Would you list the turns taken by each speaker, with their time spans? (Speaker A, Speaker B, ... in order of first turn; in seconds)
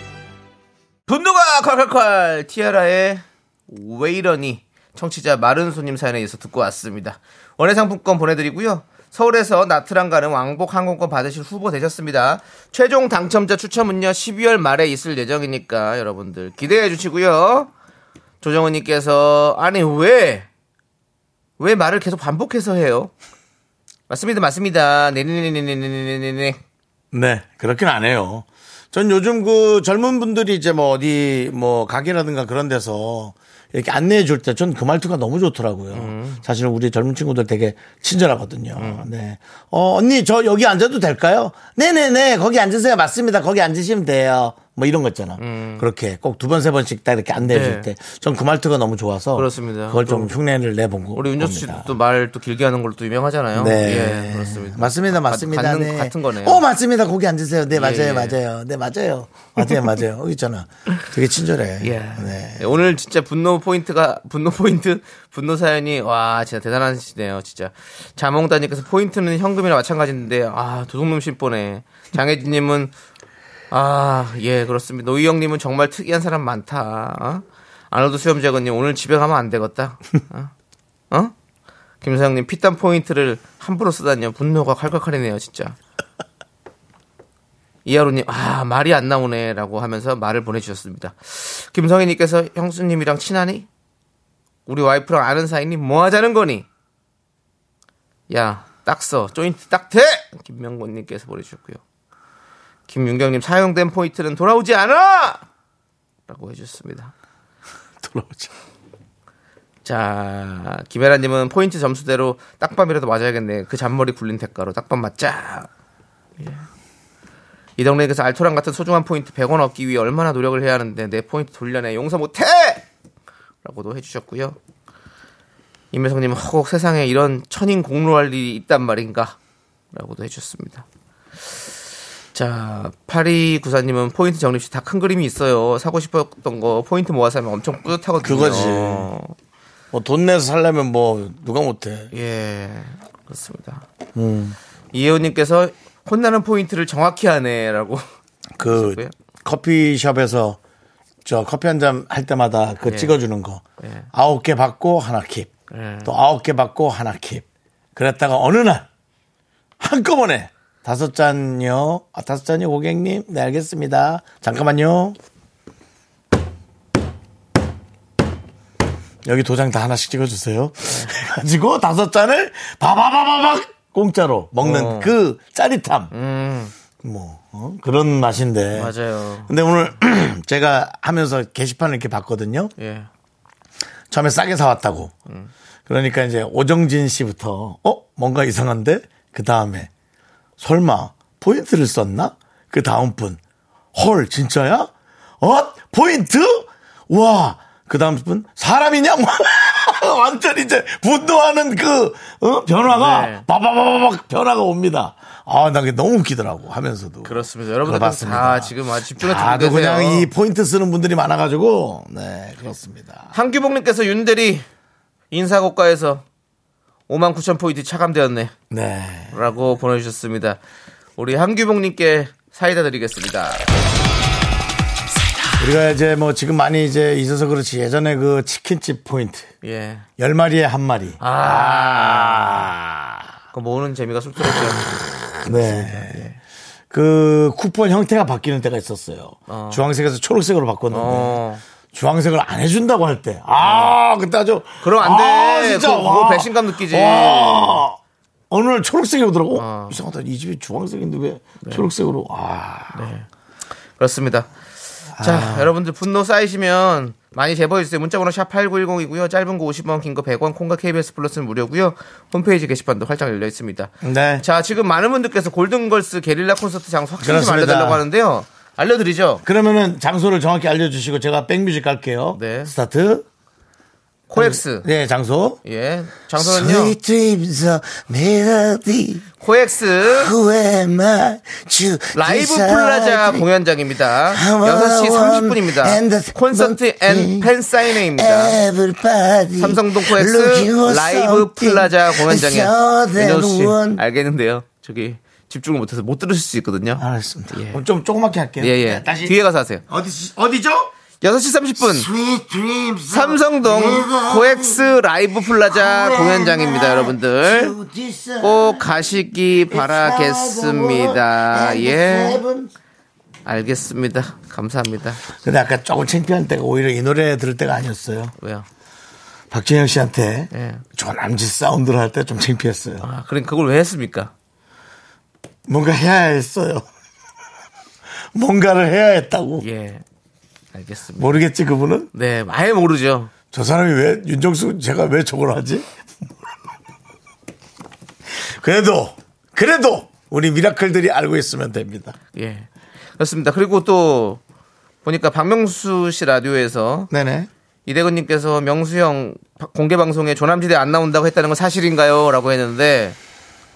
Speaker A: 1.1-17.7, 18.4-20.4, 21.6-23.1, 24.1-26.6, 35.9-36.4, 38.8-39.1, 45.4-45.8, 47.5-47.9, 49.4-50.3, 51.1-56.6, 57.7-58.4, 61.8-72.9, 73.7-80.5, 82.0-85.8, 87.9-93.7, 94.7-96.7, 98.3-101.8, 102.9-105.4, 106.3-107.1, 109.8-115.7, 116.4-116.6, 117.8-122.8, 123.6-124.6, 125.9-129.4, 129.9-130.8, 132.3-139.3, 142.1-143.8, 144.9-148.0, 148.6-149.1, 152.9-153.2, 153.8-154.1, 155.7-156.1, 174.6-175.1, 176.1-176.7, 178.8-179.5, 182.8-183.1, 202.9-203.4, 207.2-210.3, 213.3-214.6, 215.3-216.2, 217.1-218.5, 219.3-220.6, 221.2-223.7, 229.6-230.1, 231.2-232.7, 233.5-236.4, 239.5-239.8, 240.9-241.6, 243.6-244.0, 244.8-247.8, 249.5-250.0, 251.6-251.9, 252.9-253.3, 254.0-254.5, 255.2-269.4, 272.4-272.7, 274.3-274.9, 275.6-276.9, 279.4-280.4, 282.1-288.6, 289.6-297.8, 298.6-299.8, 301.2-302.1, 303.1-307.8, 308.4-312.4, 313.4-315.2, 318.4-318.6, 320.5-320.9, 323.0-324.3, 329.6-330.0, 330.7-331.4, 332.1-333.3, 342.4-342.7, 343.2-344.4, 345.1-347.1, 347.9-353.2
Speaker B: 27.1-51.9, 53.5-62.6, 108.0-108.5, 138.2-139.1, 139.9-142.1, 144.1-144.6, 148.6-150.6, 151.2-153.6, 154.1-155.5, 156.0-158.9, 159.8-165.2, 169.2-176.1, 177.0-178.9, 179.5-182.7, 184.1-185.1, 185.9-189.9, 190.6-193.4, 193.9-213.3, 218.7-219.4, 225.6-229.5, 230.2-233.3, 235.4-236.3, 236.9-241.4, 241.9-248.0, 248.5-253.1, 255.1-255.7, 264.0-264.4, 267.2-268.0, 269.4-273.3, 274.4-275.6, 276.4-279.2, 280.1-283.4, 284.3-294.0, 297.0-299.4, 299.9-300.9, 301.8-304.9, 305.6-308.9, 309.7-312.7, 315.4-318.3, 319.5-323.1, 325.7-326.9, 328.3-329.6, 331.2-332.1, 333.5-335.9, 338.3-342.1, 347.1-347.5